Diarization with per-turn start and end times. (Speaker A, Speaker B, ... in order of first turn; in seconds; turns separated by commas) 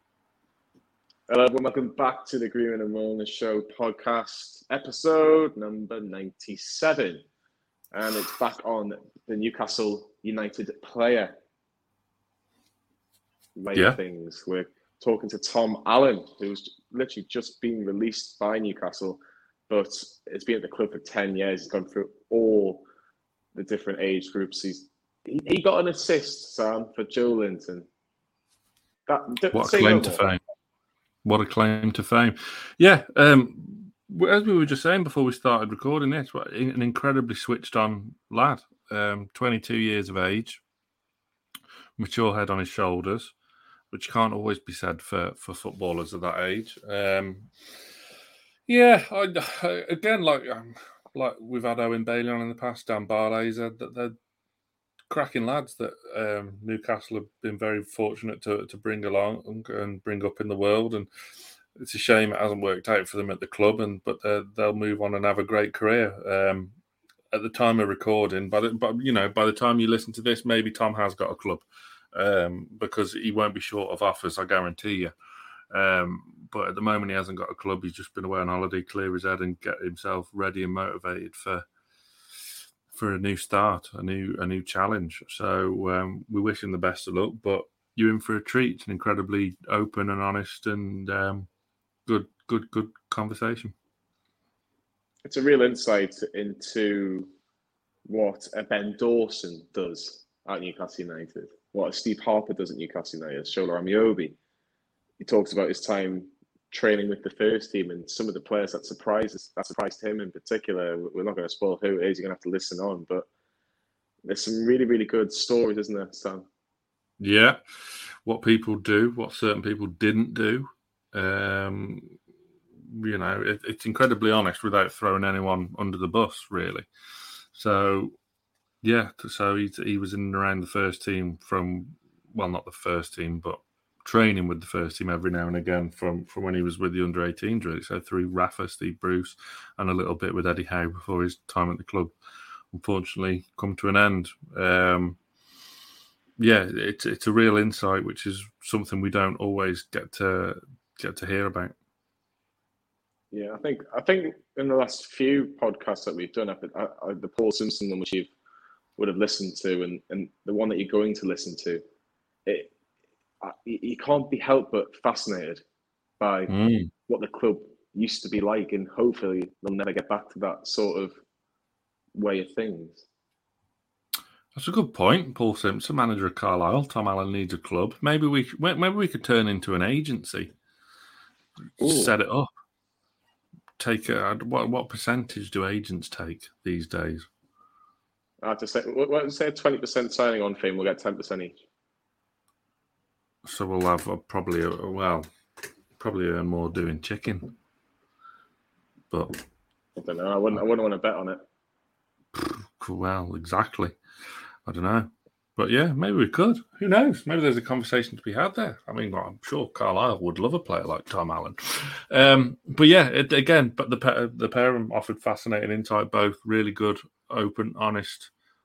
Speaker A: 1.3-7.2, Speaker A: 7.9-11.3, Speaker A: 13.6-22.8, Speaker A: 23.5-27.9, Speaker A: 29.1-30.2, Speaker B: 29.5-30.4, Speaker B: 31.2-40.6, Speaker B: 42.0-43.3, Speaker B: 43.9-47.8, Speaker B: 48.7-54.1, Speaker B: 55.1-61.1, Speaker B: 61.8-66.7, Speaker B: 67.3-75.1, Speaker B: 75.7-81.7, Speaker B: 82.9-91.5, Speaker B: 92.0-93.7, Speaker A: 95.2-97.3, Speaker A: 98.0-104.3, Speaker A: 105.2-113.2, Speaker A: 114.2-116.5, Speaker B: 117.2-122.2, Speaker B: 122.9-126.9, Speaker B: 127.5-128.1, Speaker B: 128.8-142.1, Speaker B: 142.7-145.2, Speaker B: 146.4-151.7, Speaker A: 153.3-158.3, Speaker A: 159.0-161.8, Speaker A: 162.4-162.7, Speaker A: 163.4-165.6, Speaker A: 166.2-166.5, Speaker B: 166.5-166.9, Speaker A: 167.1-171.2, Speaker A: 172.1-173.0, Speaker B: 174.5-180.5, Speaker A: 181.8-182.1, Speaker B: 181.8-182.5, Speaker B: 183.8-187.3, Speaker A: 188.4-191.6, Speaker B: 193.4-195.3, Speaker B: 196.0-197.5, Speaker B: 199.1-199.4, Speaker A: 199.9-201.4, Speaker B: 202.3-204.0, Speaker B: 204.6-218.3